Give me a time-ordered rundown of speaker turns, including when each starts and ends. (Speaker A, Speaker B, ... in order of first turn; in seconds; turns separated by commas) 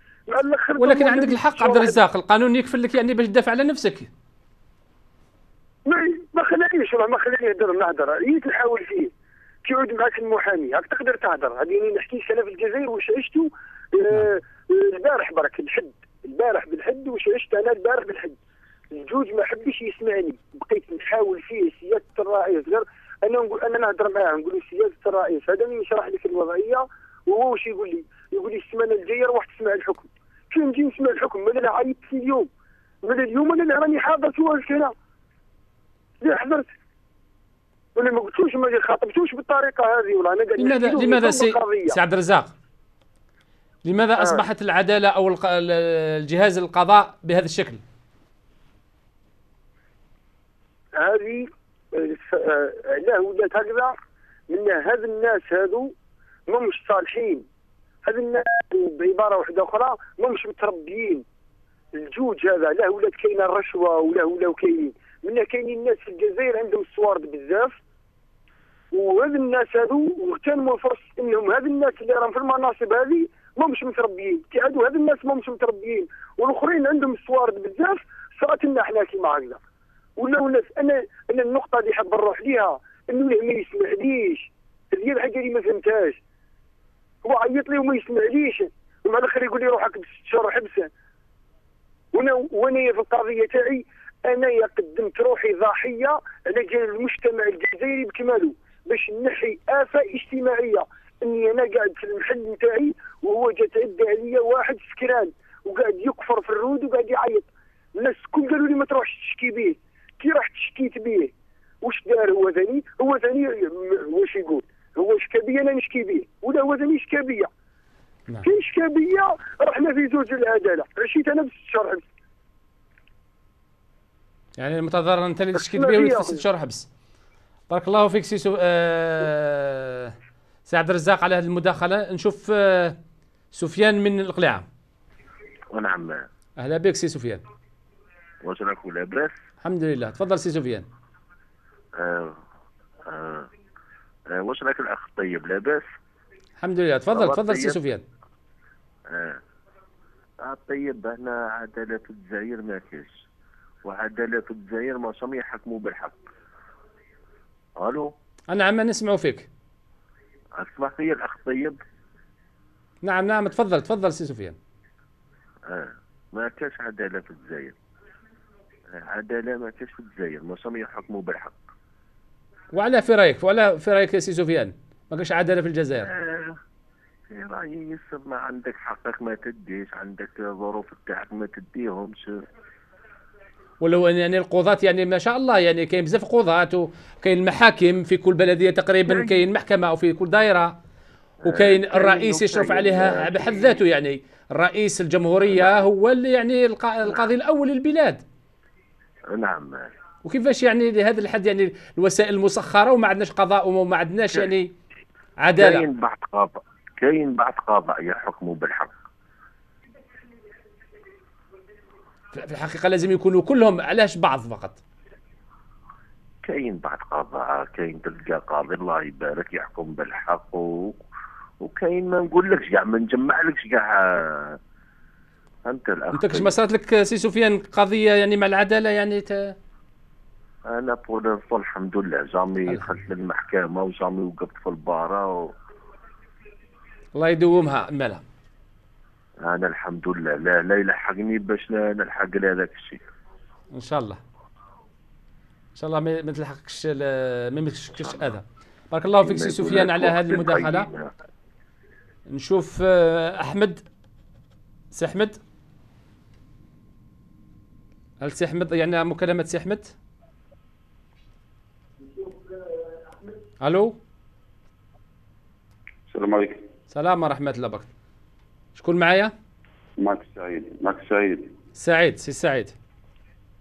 Speaker A: 0.3-2.0, Speaker B: 0.8-4.1, Speaker A: 5.9-9.1, Speaker A: 9.7-18.4, Speaker A: 18.9-32.5, Speaker A: 33.0-34.9, Speaker A: 36.2-36.7, Speaker A: 38.0-42.0, Speaker B: 40.6-42.5, Speaker B: 43.9-47.8, Speaker A: 44.2-44.4, Speaker A: 51.0-54.0, Speaker A: 54.5-55.9, Speaker A: 56.5-57.5, Speaker A: 58.0-61.2, Speaker A: 61.9-67.8, Speaker A: 68.9-79.6, Speaker A: 80.2-86.2, Speaker A: 87.2-90.9, Speaker A: 92.1-117.5, Speaker A: 118.4-122.0, Speaker B: 124.6-126.9, Speaker A: 125.5-126.4, Speaker B: 127.7-130.1, Speaker B: 130.7-132.9, Speaker B: 133.5-134.6, Speaker C: 135.7-136.2, Speaker B: 136.6-137.4, Speaker C: 138.4-139.3, Speaker B: 139.6-140.8, Speaker C: 142.0-142.4, Speaker C: 143.1-143.5, Speaker C: 144.3-145.9, Speaker B: 146.6-147.9, Speaker C: 147.1-147.8, Speaker C: 149.1-149.4, Speaker C: 150.4-153.2, Speaker C: 153.8-156.2, Speaker C: 157.8-158.1, Speaker B: 158.5-159.5, Speaker C: 160.6-161.8, Speaker B: 163.0-164.6, Speaker C: 165.7-167.8, Speaker C: 168.9-171.6, Speaker B: 172.7-176.0, Speaker C: 176.0-176.6, Speaker C: 177.3-182.3, Speaker B: 183.8-190.7, Speaker C: 189.1-189.4, Speaker C: 191.4-193.8, Speaker B: 191.5-198.2, Speaker C: 195.5-195.9, Speaker C: 199.3-199.9, Speaker B: 200.3-204.7, Speaker B: 205.4-205.8, Speaker C: 205.6-208.9, Speaker B: 212.3-214.8, Speaker C: 216.4-221.0, Speaker C: 221.6-224.6, Speaker C: 225.7-226.6, Speaker B: 226.2-229.5, Speaker C: 230.7-235.5, Speaker B: 237.2-238.2, Speaker C: 239.5-243.0, Speaker B: 243.7-244.2, Speaker B: 245.8-250.9, Speaker C: 249.2-251.1, Speaker B: 252.3-253.8, Speaker B: 254.9-255.4, Speaker B: 258.2-259.9, Speaker B: 263.6-264.0, Speaker D: 266.1-266.6, Speaker B: 266.9-267.9, Speaker B: 268.8-269.3, Speaker D: 270.0-271.5, Speaker B: 271.8-272.7